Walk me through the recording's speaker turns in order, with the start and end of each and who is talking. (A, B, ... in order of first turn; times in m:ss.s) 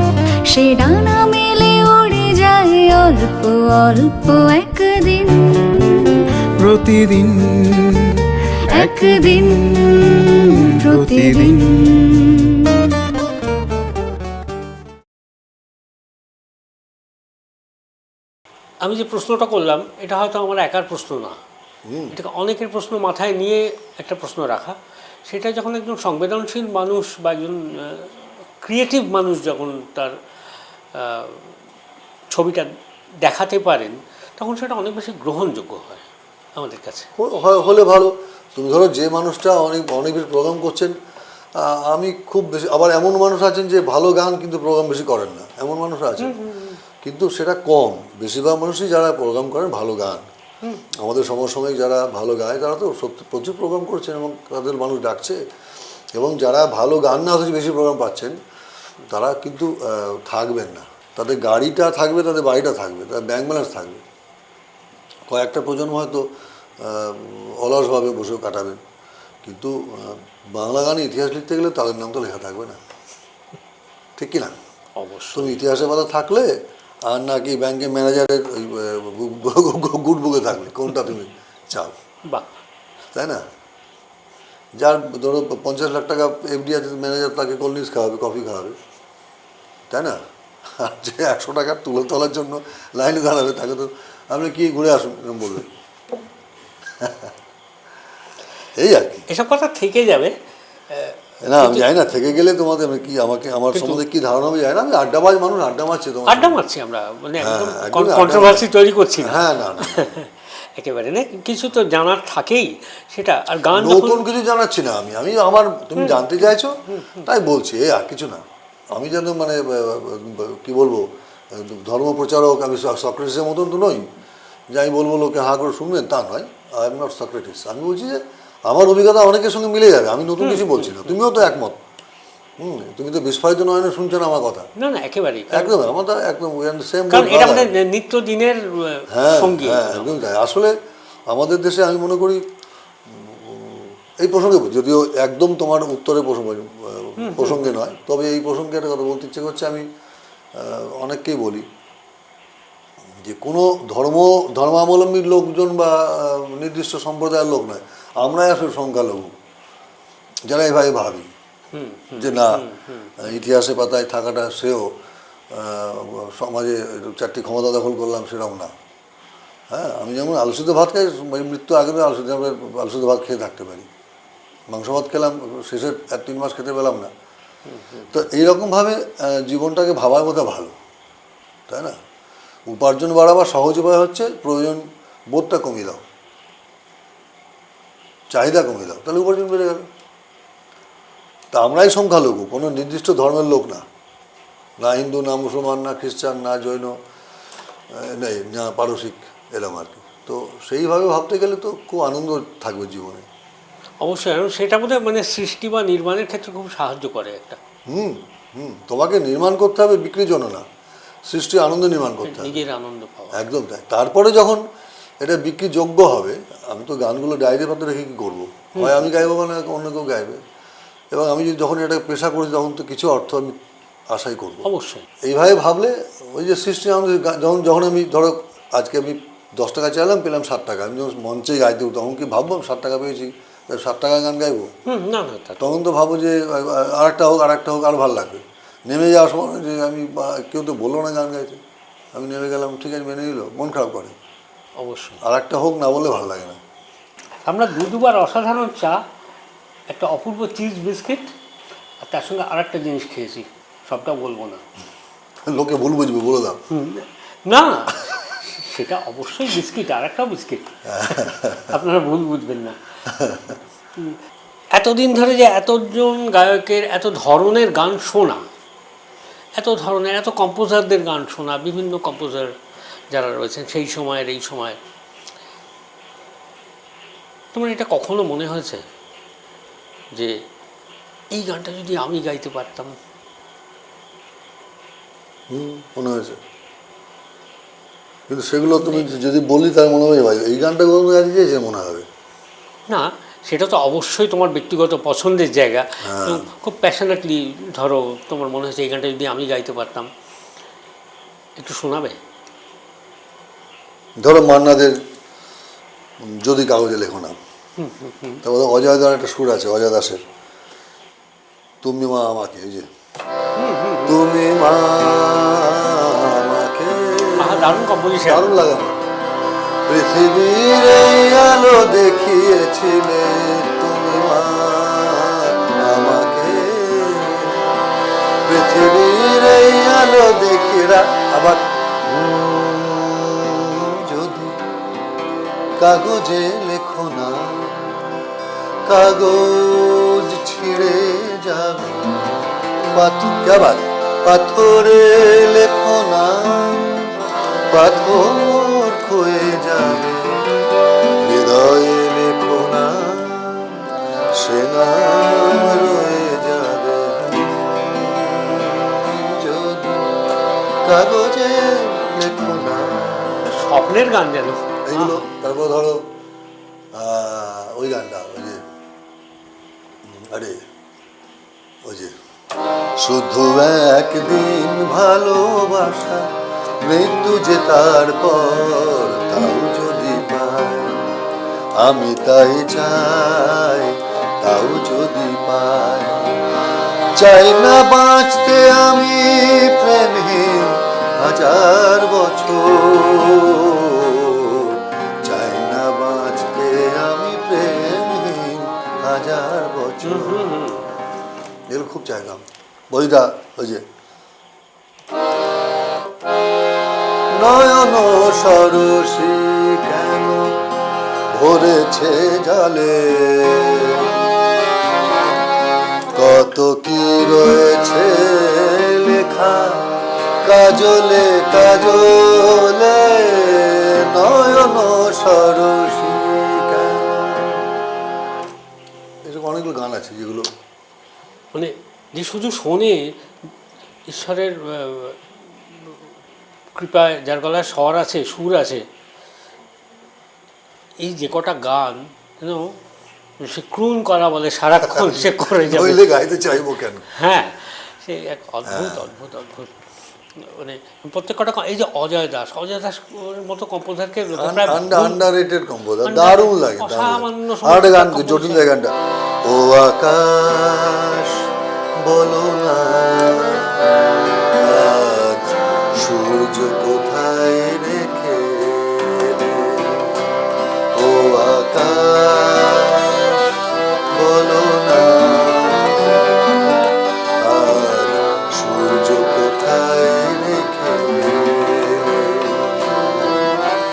0:00.5-0:06.2 A
0:06.6-0:08.1 B
0:08.7-0:13.0 A
0:08.7-0:10.3 B
0:10.8-0:12.0 B
0:18.8-0:21.4 C
0:21.8-0:22.2 D
0:22.1-0:30.2 C
0:30.9-0:31.5 C
0:32.3-0:32.7 C
0:33.2-0:36.0 C
0:36.6-0:37.1 C
0:37.2-0:40.9 D
0:41.6-0:46.4 D
0:46.2-0:46.8 C
0:47.0-0:50.2 D
0:51.0-0:55.4 D
0:56.2-0:58.4 D
0:59.1-1:04.0 D
1:05.3-1:06.3 D
1:06.8-1:08.8 D
1:09.4-1:12.8 D
1:14.2-1:14.5 D
1:15.0-1:15.6 C
1:15.3-1:16.5 D
1:17.1-1:21.9 D
1:22.2-1:22.5 C
1:23.1-1:23.4 D
1:24.8-1:28.8 D
1:29.9-1:30.2 D
1:30.7-1:35.7 D
1:37.0-1:37.3 D
1:38.8-1:39.2 D
1:39.3-1:40.3 C
1:40.9-1:41.9 C
1:41.4-1:46.6 D
1:43.7-1:44.0 C
1:46.3-1:54.2 C
1:47.4-1:48.7 D
1:49.2-1:50.2 D
1:53.7-1:58.4 D
1:56.0-1:56.4 C
1:58.9-2:04.1 D
2:04.7-2:11.8 D
2:10.4-2:11.0 C
2:12.6-2:14.7 D
2:14.8-2:15.9 C
2:15.5-2:17.7 D
2:17.1-2:20.2 C
2:19.1-2:20.7 D
2:21.3-2:22.4 D
2:23.1-2:29.8 D
2:27.2-2:27.7 C
2:30.5-2:31.6 D
2:33.2-2:39.3 D
2:40.5-2:41.3 D
2:41.7-2:43.2 C
2:42.1-2:42.7 D
2:43.2-2:44.9 D
2:45.5-2:48.7 D
2:49.7-2:53.9 D
2:54.7-2:57.1 D
2:57.7-2:58.1 C
2:58.1-3:00.7 D
3:01.7-3:02.0 D
3:02.7-3:06.0 D
3:08.3-3:09.8 D
3:11.5-3:13.8 D
3:14.8-3:16.9 D
3:17.9-3:23.2 D
3:24.0-3:27.6 C
3:27.9-3:30.6 D
3:31.3-3:32.6 D
3:32.2-3:33.4 C
3:33.3-3:34.6 D
3:35.2-3:40.4 D
3:38.8-3:39.3 C
3:41.1-3:43.6 D
3:44.1-3:44.7 D
3:44.6-3:45.1 C
3:45.2-3:54.7 D
3:54.8-3:55.8 C
3:55.6-4:01.6 D
4:02.1-4:04.1 D
4:04.8-4:05.2 C
4:05.2-4:06.6 D
4:07.4-4:09.0 C
4:09.9-4:11.3 C
4:12.0-4:14.6 C
4:15.4-4:16.6 D
4:16.7-4:22.8 C
4:20.9-4:21.8 D
4:23.1-4:23.6 D
4:24.7-4:28.4 C
4:29.6-4:32.5 C
4:33.1-4:34.8 C
4:37.5-4:38.8 C
4:41.3-4:43.0 C
4:45.5-4:46.4 D
4:48.3-4:52.0 D
4:48.8-4:49.1 C
4:52.9-5:00.1 C
4:56.0-4:56.5 D
5:01.6-5:02.2 C
5:04.2-5:05.0 D
5:06.2-5:07.4 D
5:07.8-5:08.4 C
5:08.4-5:10.2 D
5:11.8-5:12.9 D
5:13.6-5:14.2 C
5:14.0-5:19.0 D
5:17.4-5:18.5 C
5:19.9-5:27.7 D
5:28.4-5:34.6 D
5:35.8-5:38.2 D
5:38.8-5:42.1 D
5:42.9-5:47.1 D
5:47.7-5:50.6 D
5:51.2-6:00.2 D
6:00.8-6:03.5 D
6:03.4-6:05.2 C
6:04.8-6:06.1 D
6:06.9-6:08.6 D
6:10.0-6:10.6 D
6:11.8-6:12.1 D
6:13.0-6:16.3 D
6:16.8-6:21.0 D
6:21.8-6:26.4 D
6:27.2-6:40.5 D
6:40.0-6:40.8 C
6:41.7-6:43.8 D
6:47.3-6:50.6 D
6:51.3-6:54.1 D
6:56.1-6:59.8 D
7:00.4-7:07.7 D
7:09.2-7:10.5 D
7:11.5-7:13.1 C
7:14.1-7:16.0 C
7:16.7-7:18.8 C
7:21.0-7:22.8 C
7:23.4-7:29.7 C
7:24.8-7:27.1 D
7:28.6-7:29.1 D
7:30.4-7:35.2 C
7:34.3-7:41.5 D
7:36.0-7:38.7 C
7:42.0-7:50.2 D
7:50.9-7:53.4 D
7:54.1-7:56.2 D
7:57.4-8:03.6 D